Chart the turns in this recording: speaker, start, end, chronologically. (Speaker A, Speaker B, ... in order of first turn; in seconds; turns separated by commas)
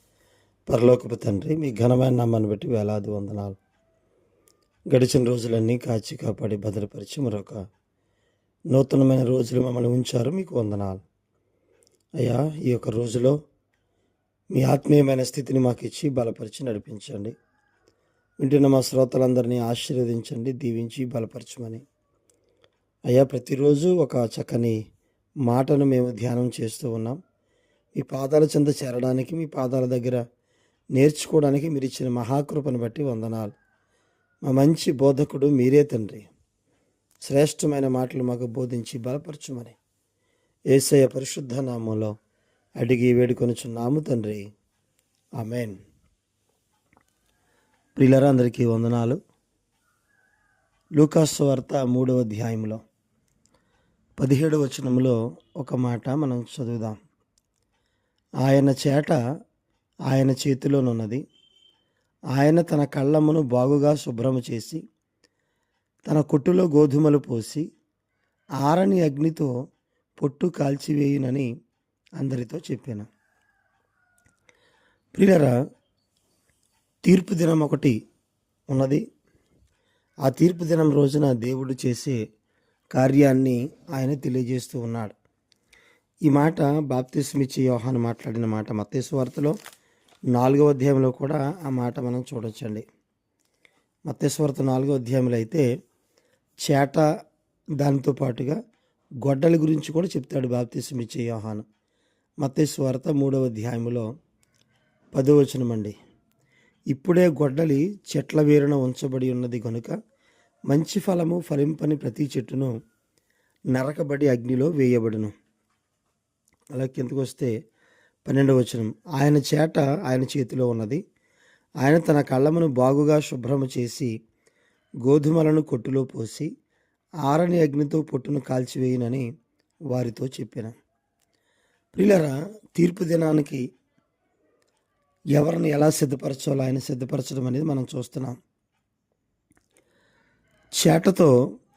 Speaker A: 0.7-3.6, Speaker A: 4.9-7.6, Speaker A: 8.7-11.0, Speaker A: 12.2-13.3, Speaker A: 14.5-17.4, Speaker A: 18.4-21.8, Speaker A: 23.1-24.8, Speaker A: 25.5-27.2, Speaker A: 28.0-30.2, Speaker A: 30.9-33.5, Speaker A: 34.5-36.3, Speaker A: 37.3-39.8, Speaker A: 40.7-42.1, Speaker A: 42.8-44.4, Speaker A: 45.4-45.8, Speaker A: 48.0-49.2, Speaker A: 51.0-52.8, Speaker A: 54.2-57.0, Speaker A: 58.4-59.2, Speaker A: 60.1-61.2, Speaker A: 62.4-64.8, Speaker A: 66.1-67.6, Speaker A: 68.6-69.5, Speaker A: 70.2-71.5, Speaker A: 72.2-73.1, Speaker A: 75.1-75.5, Speaker A: 77.0-77.9, Speaker A: 78.7-79.0, Speaker A: 80.3-82.2, Speaker A: 82.9-85.1, Speaker A: 86.3-89.6, Speaker A: 90.3-92.8, Speaker A: 94.1-95.7, Speaker A: 96.7-97.0, Speaker A: 97.8-98.6, Speaker A: 99.2-101.6, Speaker A: 102.4-104.0, Speaker A: 105.1-106.0, Speaker A: 106.9-109.9, Speaker A: 110.7-112.7, Speaker A: 113.7-115.3, Speaker A: 116.7-117.5, Speaker A: 118.3-121.0, Speaker A: 121.8-124.1, Speaker A: 125.0-126.5, Speaker A: 127.3-129.2, Speaker A: 129.9-130.7, Speaker A: 131.9-133.6, Speaker A: 135.3-138.4, Speaker A: 140.8-141.3